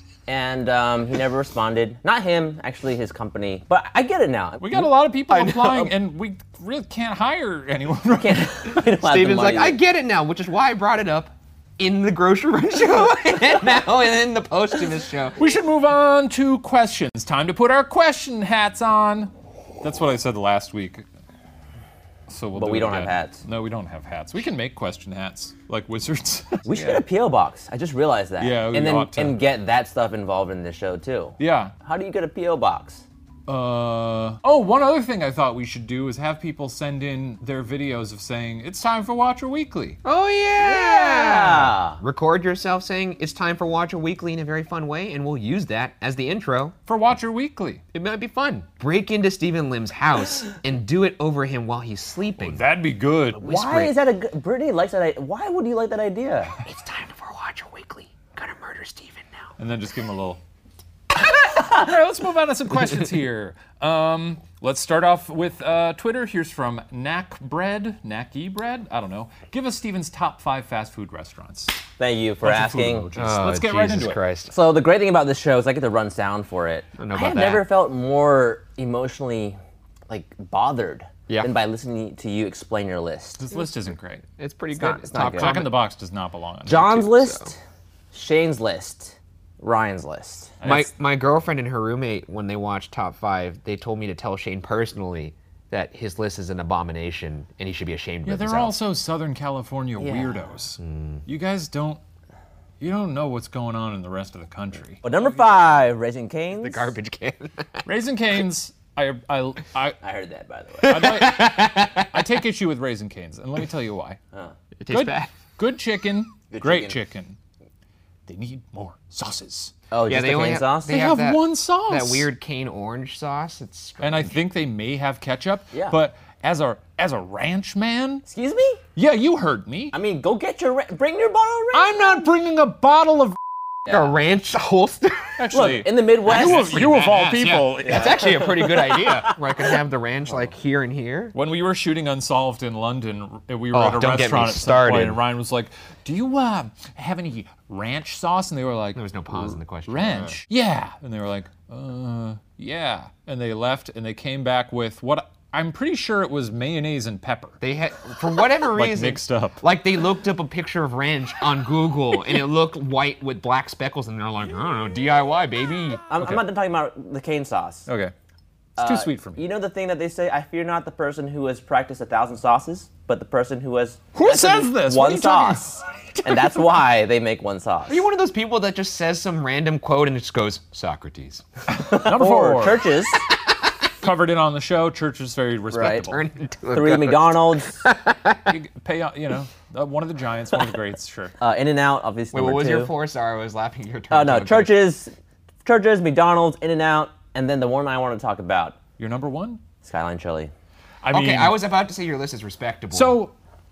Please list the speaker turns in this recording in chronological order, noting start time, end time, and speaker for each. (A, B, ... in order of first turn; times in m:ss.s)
0:00.3-0:04.9 A
0:04.6-0:08.8 B
0:05.3-0:05.9 C
0:08.2-0:09.8 A
0:08.9-0:15.4 C
0:15.4-0:21.0 B
0:22.3-0:27.0 B
0:22.5-0:23.4 A
0:26.6-0:33.0 A
0:28.4-0:29.4 B
0:31.4-0:31.7 B
0:33.5-0:40.0 B
0:40.0-0:46.7 C
0:40.6-0:42.0 A
0:46.9-0:47.8 B
0:47.9-0:52.6 C
0:52.4-0:53.6 B
0:53.4-0:56.5 A
0:53.4-0:53.9 C
0:56.6-0:59.5 C
0:59.6-1:00.4 B
1:01.2-1:11.8 B
1:12.0-1:13.1 A
1:12.4-1:14.2 B
1:13.2-1:14.5 C
1:14.5-1:19.6 A
1:17.0-1:17.7 C
1:20.1-1:23.4 A
1:23.4-1:24.2 B
1:24.4-1:25.7 C
1:24.8-1:25.6 A
1:25.2-1:27.1 B
1:26.6-1:27.6 A
1:27.2-1:27.5 C
1:28.1-1:30.6 A
1:30.6-1:30.9 B
1:30.6-1:38.8 C
1:38.2-1:42.0 B
1:40.0-1:40.4 A
1:40.8-1:41.2 C
1:42.8-1:45.0 B
1:45.0-1:46.9 A
1:46.5-1:47.9 C
1:47.8-1:50.0 B
1:50.0-1:51.0 A
1:50.8-1:52.4 C
1:50.8-1:54.2 B
1:54.8-1:55.3 C
1:54.9-1:57.4 B
1:56.5-1:57.0 A
1:58.2-1:59.7 B
1:59.9-2:01.0 A
2:00.1-2:04.4 C
2:00.9-2:02.3 B
2:04.0-2:08.2 B
2:08.2-2:08.8 A
2:09.0-2:09.9 B
2:09.9-2:12.2 A
2:11.7-2:13.4 B
2:13.9-2:15.4 C
2:15.4-2:18.5 B
2:15.5-2:16.8 A
2:16.2-2:21.3 C
2:17.8-2:19.3 A
2:21.3-2:37.6 B
2:23.7-2:25.2 C
2:28.9-2:30.4 C
2:37.6-2:46.0 C
2:38.7-2:39.6 B
2:46.1-2:47.9 A
2:47.9-2:48.1 B
2:48.8-2:58.0 A
2:48.8-2:49.4 B
2:54.1-2:56.6 B
2:57.9-3:01.4 C
3:01.7-3:02.9 B
3:01.8-3:03.2 A
3:04.0-3:06.2 B
3:05.7-3:06.1 A
3:05.9-3:08.5 C
3:06.7-3:07.8 A
3:08.5-3:11.3 B
3:11.4-3:12.9 A
3:12.3-3:14.7 C
3:14.1-3:15.1 A
3:15.6-3:18.8 A
3:19.0-3:19.6 B
3:19.8-3:20.5 A
3:21.0-3:21.6 B
3:21.1-3:23.2 C
3:22.9-3:23.3 B